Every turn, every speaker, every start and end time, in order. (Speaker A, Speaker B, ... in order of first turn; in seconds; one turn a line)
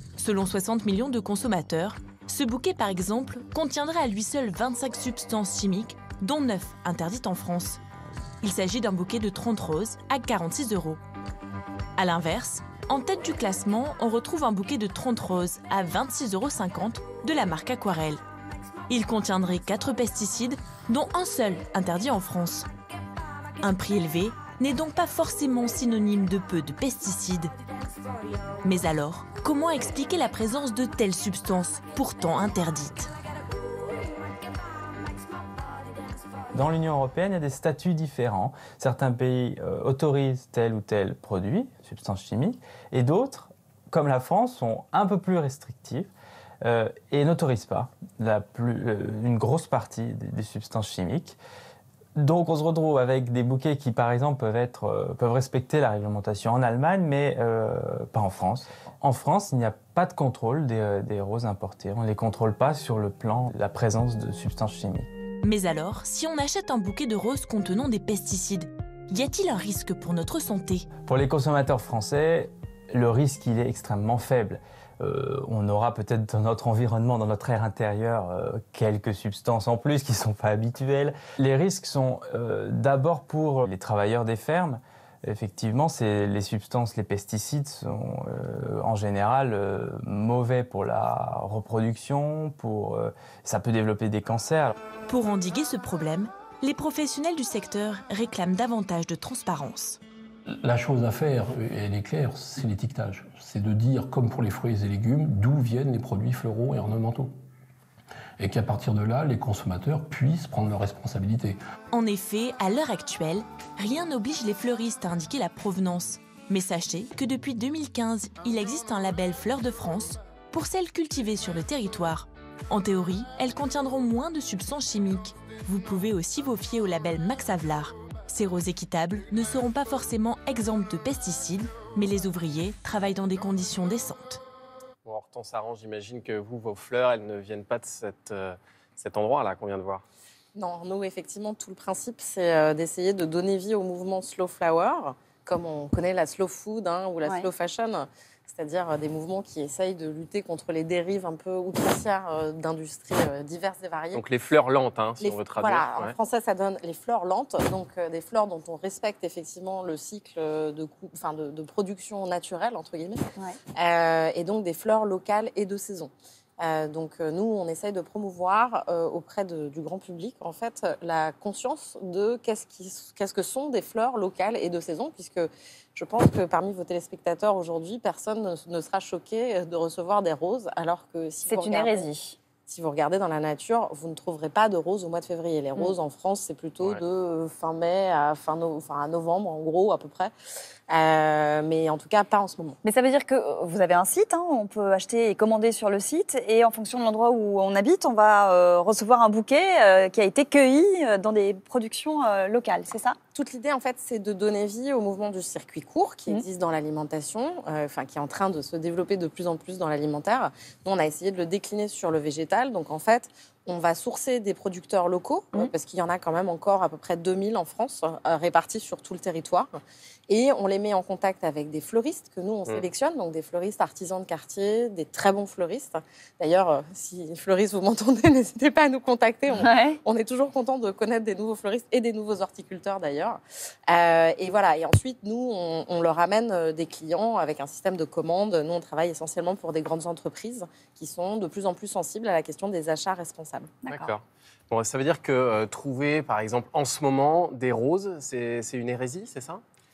Speaker A: 0.2-7.8
Speaker A: 8.4-11.0
Speaker A: 12.0-18.2
Speaker A: 18.9-22.7
Speaker A: 23.6-27.5
Speaker A: 28.6-33.1
Speaker B: 36.5-46.1
Speaker B: 46.6-51.4
Speaker B: 52.2-65.1
Speaker A: 65.4-70.9
Speaker B: 71.0-94.8
Speaker A: 95.1-100.0
Speaker C: 100.6-107.4
Speaker C: 108.4-111.6
Speaker A: 111.9-134.4
Speaker D: 135.1-140.0
Speaker E: 140.5-154.2
Speaker D: 154.1-156.2
Speaker E: 155.2-163.2
Speaker E: 163.8-182.1
Speaker F: 181.5-182.4
Speaker E: 182.7-190.3
Speaker E: 190.9-192.8
Speaker F: 192.8-203.2
Speaker E: 203.3-243.7
Speaker F: 229.5-230.0
Speaker D: 243.9-249.6